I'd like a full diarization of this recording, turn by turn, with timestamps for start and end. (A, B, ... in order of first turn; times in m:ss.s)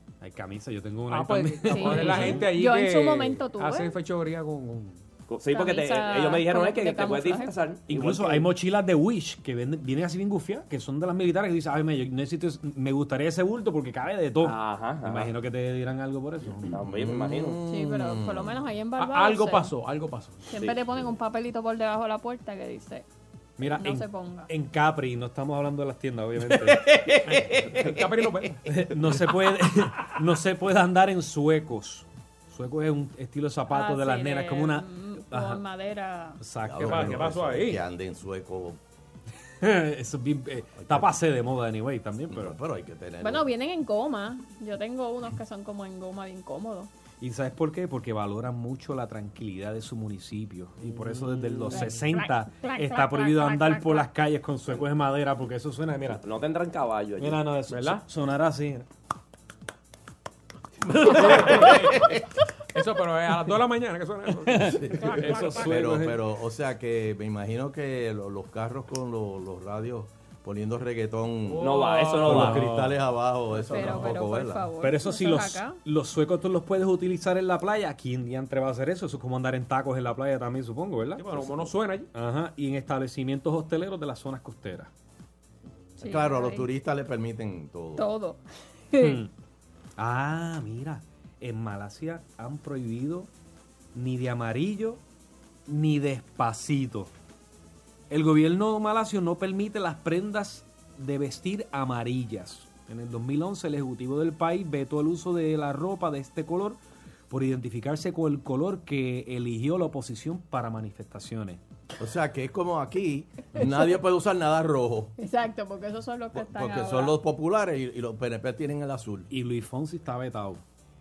0:00.2-0:02.5 A
0:01.1-0:05.0 B
0:01.7-0:04.0 C
0:05.3-0:08.5 D
0:05.5-0:07.5 C
0:07.9-0:16.6 A
0:14.4-0:15.3 D
0:16.6-0:18.6 E
0:16.6-0:17.6 D
0:17.6-0:19.7 C
0:19.0-0:20.5 B
0:20.5-0:23.0 C
0:20.5-0:20.9 D
0:23.6-0:26.9 A
0:23.7-0:24.5 C
0:27.3-0:28.7 B
0:28.7-0:35.6 A
0:33.7-0:36.4 C
0:36.4-0:37.3 A
0:36.6-0:38.8 E
0:36.8-0:37.8 B
0:39.6-0:42.6 A
0:40.8-0:41.1 E
0:42.3-0:43.5 E
0:43.2-0:46.9 C
0:47.2-0:56.2 A
0:51.6-0:51.9 B
0:51.7-0:54.1 C
0:56.1-0:57.5 D
0:57.2-0:58.8 A
0:57.7-0:58.0 B
1:00.9-1:02.1 B
1:01.1-1:01.8 E
1:02.7-1:05.5 B
1:04.5-1:06.2 A
1:04.6-1:14.7 E
1:04.9-1:05.8 C
1:11.4-1:12.3 B
1:11.6-1:12.7 D
1:12.3-1:13.0 A
1:13.7-1:15.8 C
1:14.8-1:21.5 A
1:21.2-1:22.1 B
1:22.1-1:24.9 A
1:26.0-1:28.0 E
1:26.0-1:26.7 C
1:28.0-1:29.2 C
1:29.0-1:29.3 A
1:30.0-1:33.3 A
1:33.9-1:35.0 A
1:35.7-1:37.1 A
1:38.1-1:46.8 A
1:47.3-1:51.6 A
1:52.0-1:55.1 E
1:53.6-1:53.9 C
1:55.2-1:57.2 C
1:56.3-1:59.3 E
1:59.3-2:00.6 A